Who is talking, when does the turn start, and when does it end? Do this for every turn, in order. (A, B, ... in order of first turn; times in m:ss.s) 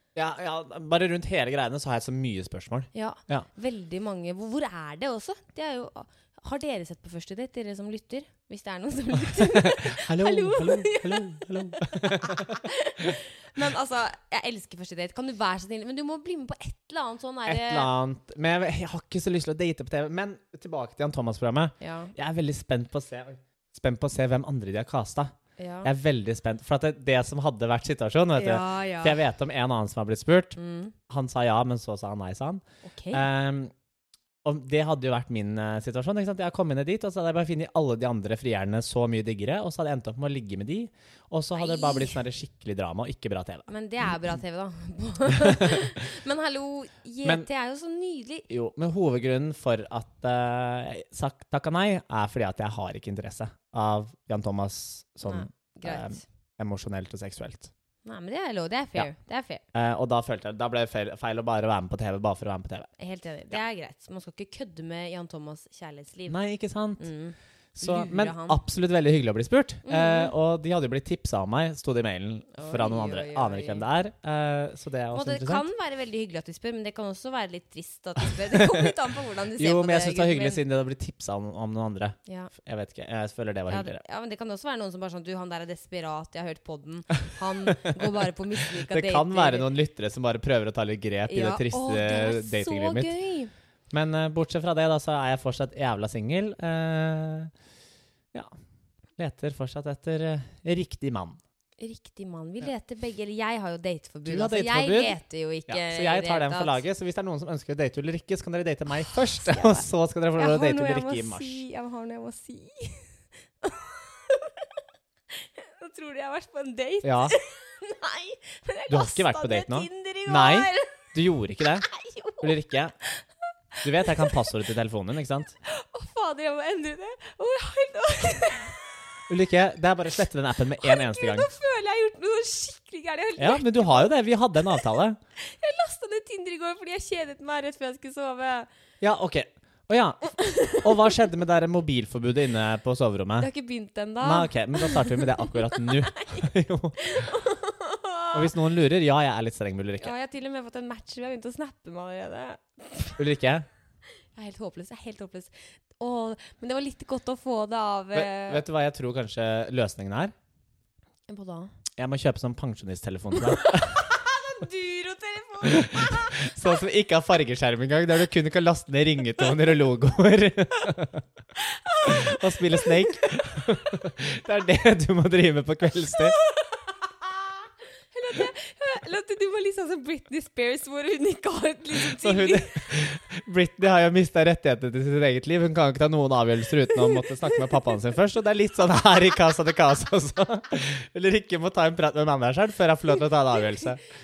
0:00.2-0:03.5 A
0:02.9-0:17.9 B
0:09.3-0:12.6 A
0:17.5-0:30.6 A
0:21.8-0:22.1 B
0:25.6-0:25.9 B
0:28.4-0:29.2 B
0:30.6-0:31.0 B
0:31.1-0:33.7 A
0:32.8-0:33.3 B
0:34.4-0:44.2 A
0:41.6-0:42.2 B
0:43.7-0:48.5 B
0:45.3-0:45.9 A
0:48.5-0:57.7 A
0:55.3-0:56.2 B
0:58.0-0:59.6 B
0:59.7-1:02.9 A
1:03.0-1:06.4 B
1:06.3-1:07.0 A
1:07.0-1:08.6 B
1:07.8-1:15.6 A
1:09.8-1:10.3 B
1:12.5-1:13.8 B
1:15.1-1:20.6 B
1:18.5-1:18.9 A
1:19.6-1:24.0 A
1:22.3-1:22.5 B
1:23.7-1:29.7 B
1:27.7-1:33.2 A
1:31.3-1:33.5 B
1:33.9-1:37.5 A
1:39.2-1:41.4 A
1:41.8-1:46.8 B
1:44.3-1:51.6 A
1:49.0-1:53.1 B
1:53.6-1:54.7 B
1:55.3-2:01.0 B
1:57.0-1:57.4 A
1:58.9-2:01.9 A
2:01.8-2:02.5 B
2:02.4-2:03.0 A
2:03.8-2:04.4 B
2:03.8-2:05.6 A
2:05.6-2:08.8 B
2:09.3-2:11.5 A
2:10.8-2:14.1 B
2:13.4-2:15.2 A
2:15.4-2:18.7 B
2:19.0-2:23.5 A
2:20.4-2:21.0 B
2:23.4-2:28.5 B
2:24.2-2:27.3 A
2:28.3-2:30.1 A
2:30.0-2:33.2 B
2:33.2-2:33.7 A
2:34.4-2:38.6 B
2:38.1-2:40.3 A
2:41.3-2:41.7 B
2:42.0-2:44.1 A
2:43.4-2:46.7 B
2:45.6-2:51.2 A
2:51.6-2:53.2 B
2:52.0-2:56.4 A
2:56.4-2:57.4 B
2:58.1-3:02.9 B
3:02.1-3:14.0 A